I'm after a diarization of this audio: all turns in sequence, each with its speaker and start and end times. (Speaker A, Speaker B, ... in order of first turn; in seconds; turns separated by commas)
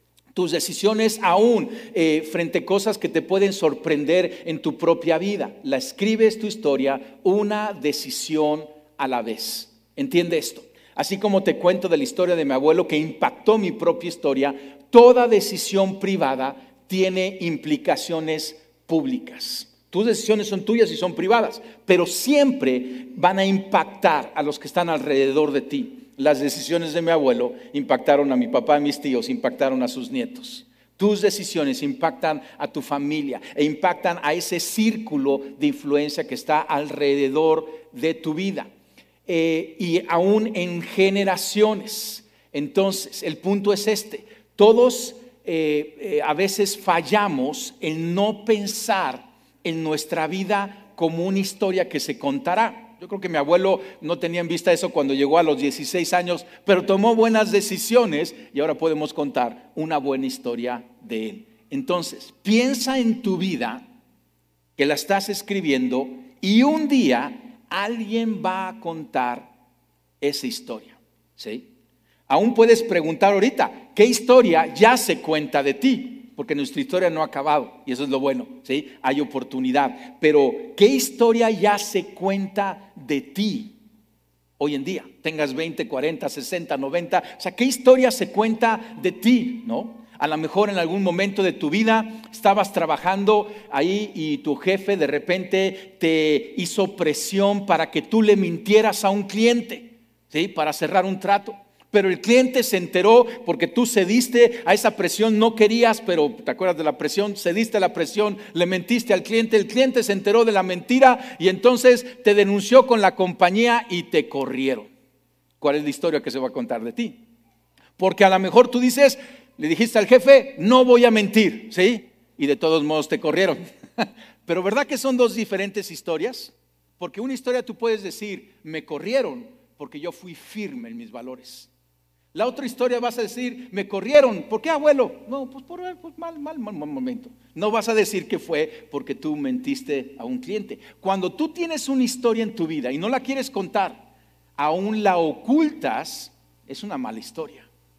Speaker A: 0.3-38.7, Speaker A: 39.3-63.8, Speaker A: 64.8-69.5, Speaker A: 70.2-71.7, Speaker A: 72.3-83.8, Speaker A: 84.6-114.9, Speaker A: 115.6-117.2, Speaker A: 118.0-131.7, Speaker A: 132.3-144.1, Speaker A: 144.6-147.7